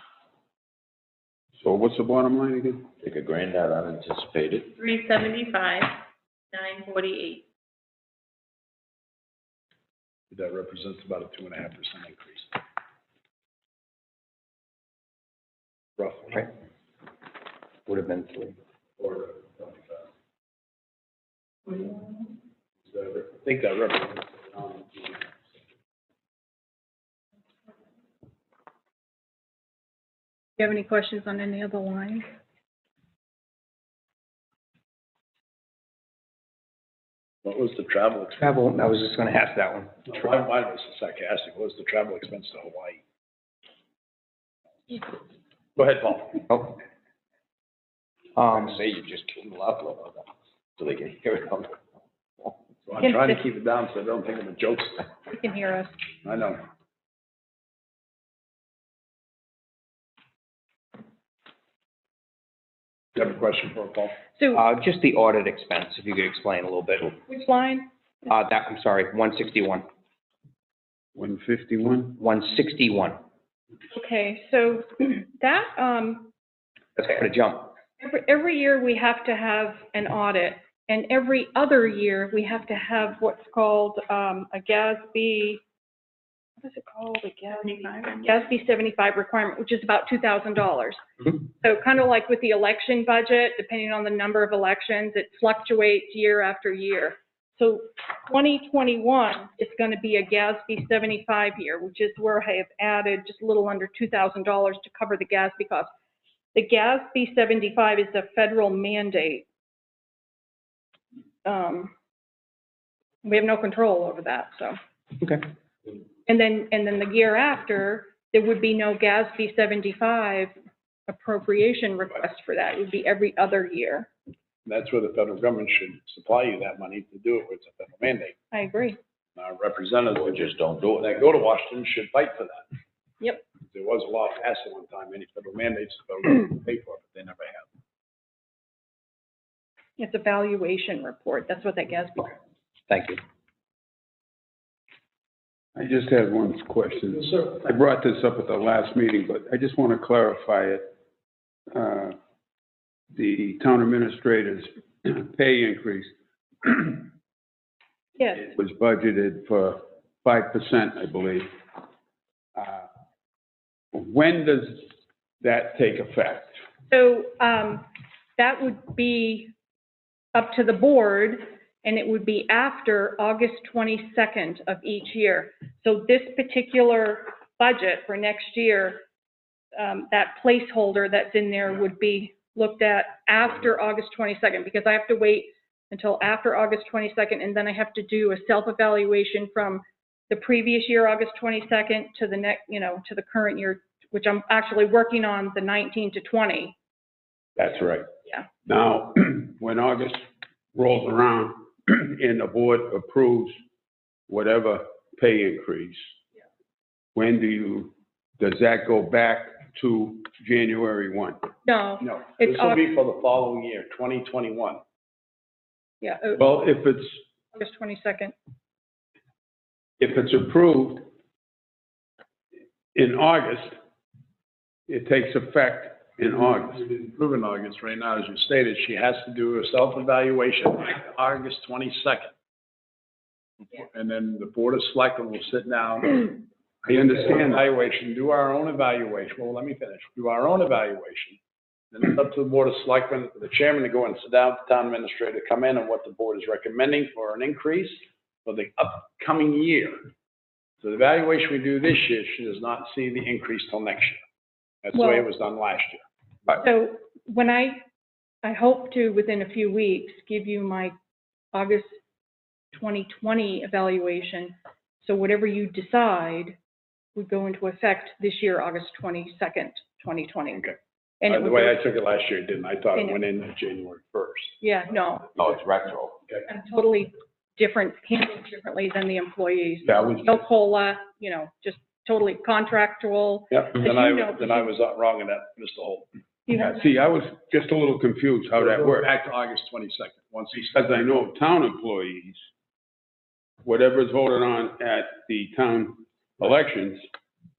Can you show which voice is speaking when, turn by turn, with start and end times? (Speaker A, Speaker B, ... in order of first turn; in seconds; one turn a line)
Speaker A: 1.6-2.9
Speaker B: 3.0-4.7
Speaker C: 4.8-6.0
Speaker C: 6.5-7.4
Speaker D: 10.3-12.6
Speaker D: 16.0-16.4
Speaker E: 17.9-18.6
Speaker D: 19.0-20.0
Speaker D: 22.8-25.3
Speaker F: 30.6-32.2
Speaker D: 37.4-38.5
Speaker E: 38.4-40.1
Speaker D: 40.1-43.0
Speaker A: 45.8-46.4
Speaker E: 46.5-46.8
Speaker E: 48.4-48.8
Speaker B: 48.5-51.7
Speaker D: 52.8-55.0
Speaker F: 53.0-53.4
Speaker F: 55.3-56.0
Speaker D: 56.2-56.6
Speaker D: 63.1-64.2
Speaker F: 64.4-64.6
Speaker E: 64.5-67.1
Speaker F: 67.2-67.9
Speaker E: 68.3-69.8
Speaker A: 71.1-72.1
Speaker E: 72.2-73.2
Speaker F: 73.9-76.3
Speaker E: 77.0-77.7
Speaker F: 78.0-85.6
Speaker F: 86.6-105.9
Speaker C: 87.6-88.2
Speaker F: 106.5-109.5
Speaker F: 111.4-111.9
Speaker F: 113.2-114.8
Speaker F: 116.2-120.5
Speaker F: 121.1-124.1
Speaker D: 124.6-128.3
Speaker F: 128.5-129.0
Speaker D: 129.3-132.6
Speaker B: 130.2-131.2
Speaker D: 133.7-137.7
Speaker F: 140.0-142.3
Speaker E: 142.9-143.2
Speaker A: 145.8-150.9
Speaker D: 147.2-147.6
Speaker A: 151.7-152.2
Speaker A: 153.1-157.1
Speaker F: 158.2-158.5
Speaker A: 158.5-161.5
Speaker A: 162.6-162.8
Speaker A: 163.9-164.9
Speaker A: 165.4-166.6
Speaker F: 166.9-169.5
Speaker F: 170.3-179.0
Speaker F: 179.7-196.8
Speaker A: 197.6-198.0
Speaker F: 197.7-198.4
Speaker A: 198.7-200.2
Speaker A: 200.7-203.6
Speaker A: 204.3-206.0
Speaker A: 207.1-211.4
Speaker F: 211.6-212.9
Speaker D: 212.0-214.8
Speaker F: 216.0-216.5
Speaker A: 216.3-217.2
Speaker F: 217.5-218.3
Speaker A: 220.0-221.1
Speaker A: 222.9-223.7
Speaker A: 224.9-226.8
Speaker D: 226.8-232.3
Speaker D: 233.7-241.4
Speaker A: 236.9-237.6
Speaker D: 241.9-250.1
Speaker D: 250.8-254.2
Speaker D: 254.8-256.0
Speaker F: 254.9-255.3
Speaker F: 256.5-257.8
Speaker F: 258.4-260.9
Speaker F: 261.5-261.9
Speaker F: 262.7-266.6
Speaker F: 267.1-270.7
Speaker F: 271.2-271.8
Speaker D: 271.3-274.6
Speaker F: 272.9-273.2
Speaker F: 274.6-275.4
Speaker B: 275.4-276.2
Speaker F: 276.4-284.7
Speaker A: 279.9-280.2
Speaker D: 283.5-286.1
Speaker F: 286.5-286.9
Speaker A: 286.5-289.1
Speaker D: 288.5-290.8
Speaker A: 290.7-292.4
Speaker A: 293.6-297.0